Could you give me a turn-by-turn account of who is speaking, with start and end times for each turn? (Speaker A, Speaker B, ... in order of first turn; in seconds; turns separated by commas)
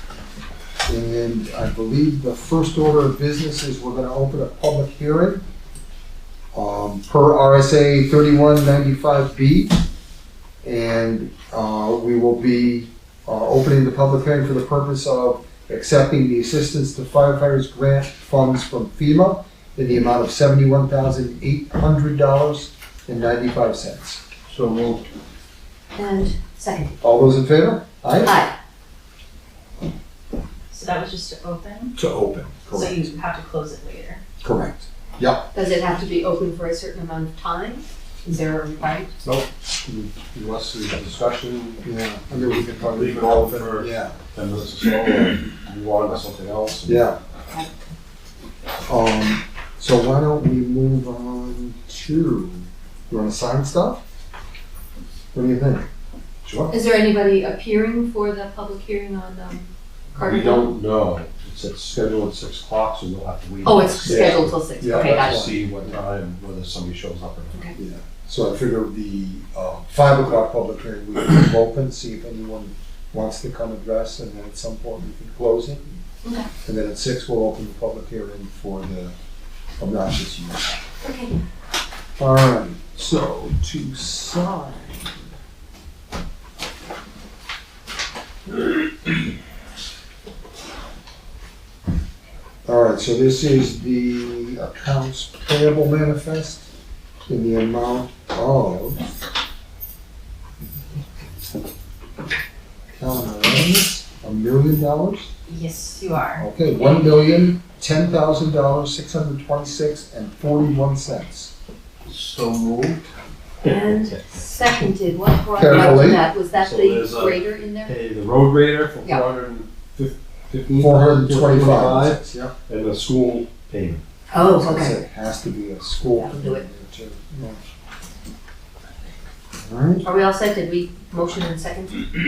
Speaker A: 0.8-5.4, Speaker A: 6.5-9.7, Speaker A: 10.6-24.2, Speaker B: 24.5-25.1, Speaker C: 25.9-27.0, Speaker A: 27.0-28.4, Speaker C: 28.2-28.5, Speaker D: 30.7-31.9, Speaker A: 31.9-33.1, Speaker D: 32.7-34.2, Speaker A: 34.4-35.5, Speaker C: 35.5-39.2, Speaker B: 39.2-47.0, Speaker A: 41.8-44.2, Speaker A: 46.9-47.2, Speaker A: 48.9-54.0, Speaker A: 55.3-55.9, Speaker B: 56.4-56.7, Speaker C: 56.7-60.7, Speaker B: 60.2-67.6, Speaker C: 63.6-65.4, Speaker A: 64.0-66.0, Speaker A: 67.7-76.0, Speaker A: 76.6-79.1, Speaker A: 79.8-80.7, Speaker A: 82.2-85.1, Speaker A: 92.7-96.7, Speaker A: 97.3-99.1, Speaker A: 102.9-105.3, Speaker D: 105.5-106.5, Speaker A: 106.4-111.5, Speaker B: 112.0-113.0, Speaker C: 113.6-117.9, Speaker B: 113.6-114.2, Speaker A: 115.5-116.2, Speaker B: 116.5-124.0, Speaker A: 120.8-122.5, Speaker C: 124.3-125.0, Speaker A: 124.3-127.6, Speaker C: 126.1-126.6, Speaker A: 129.6-130.0, Speaker C: 130.0-132.1